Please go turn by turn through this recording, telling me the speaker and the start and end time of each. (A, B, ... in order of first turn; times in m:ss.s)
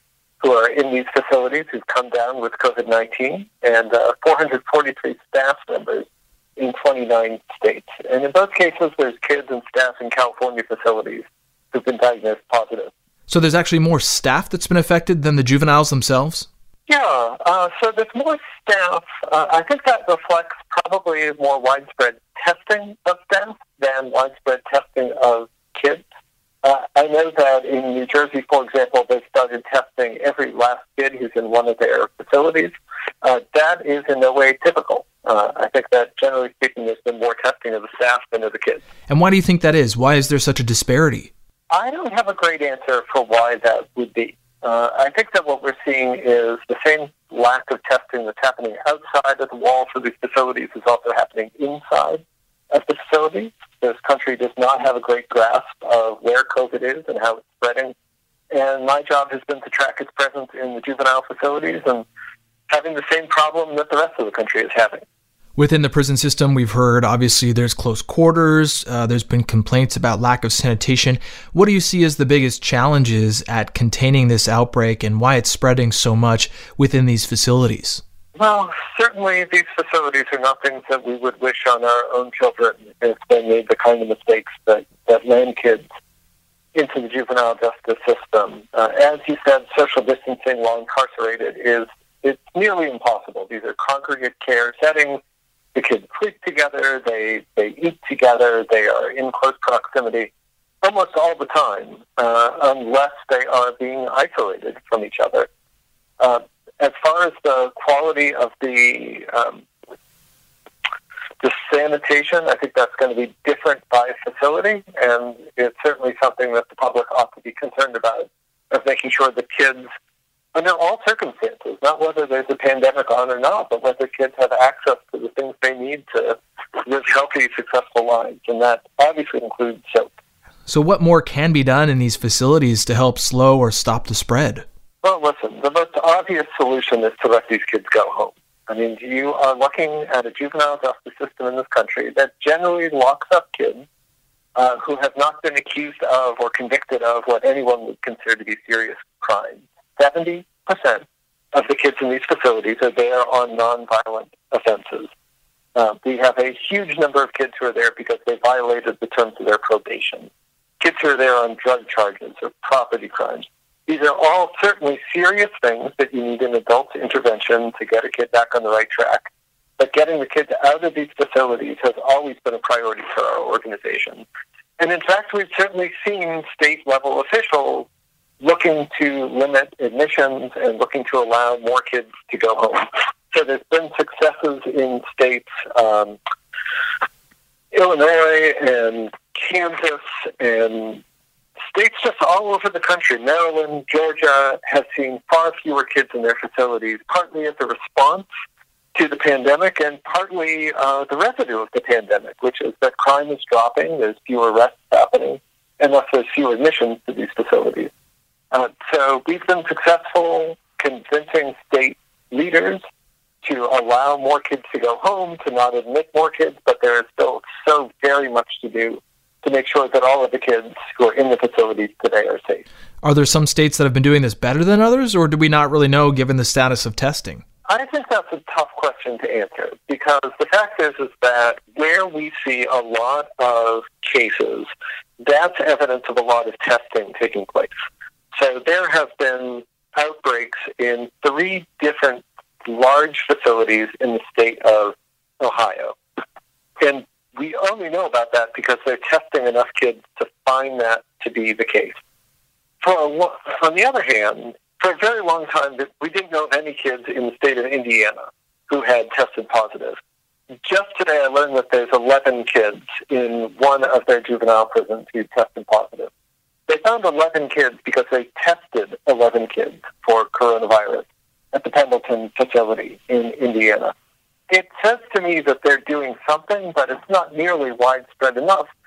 0:00.4-0:12.9 A
0:13.3-0:16.5 B
0:16.9-0:26.0 A
0:26.6-0:38.8 A
0:39.1-0:41.3 B
0:41.7-0:57.9 A
0:58.5-1:02.0 A
1:02.7-1:05.0 A
1:05.6-1:18.0 B
1:18.4-1:25.8 A
1:26.7-1:35.2 A
1:35.7-1:45.5 A
1:46.2-1:49.6 A
1:51.4-1:59.9 A
2:00.5-2:10.1 A
2:10.7-2:14.6 B
2:15.0-2:23.8 A
2:24.6-2:35.1 A
2:35.7-2:40.3 A
2:40.8-2:49.3 A
2:49.8-2:54.2 A
2:54.8-2:57.9 A
2:58.4-3:06.2 A
3:07.7-3:11.0 A
3:11.7-3:18.3 A
3:18.9-3:27.9 A
3:28.5-3:32.8 A
3:33.4-3:42.6 A
3:43.0-3:47.4 B
3:47.7-3:54.7 A
3:55.2-3:57.7 A
3:58.4-4:06.0 A
4:06.8-4:12.0 A
4:12.8-4:18.2 A
4:18.7-4:20.0 A
4:20.6-4:26.1 A
4:26.7-4:33.9 A
4:34.5-4:38.7 A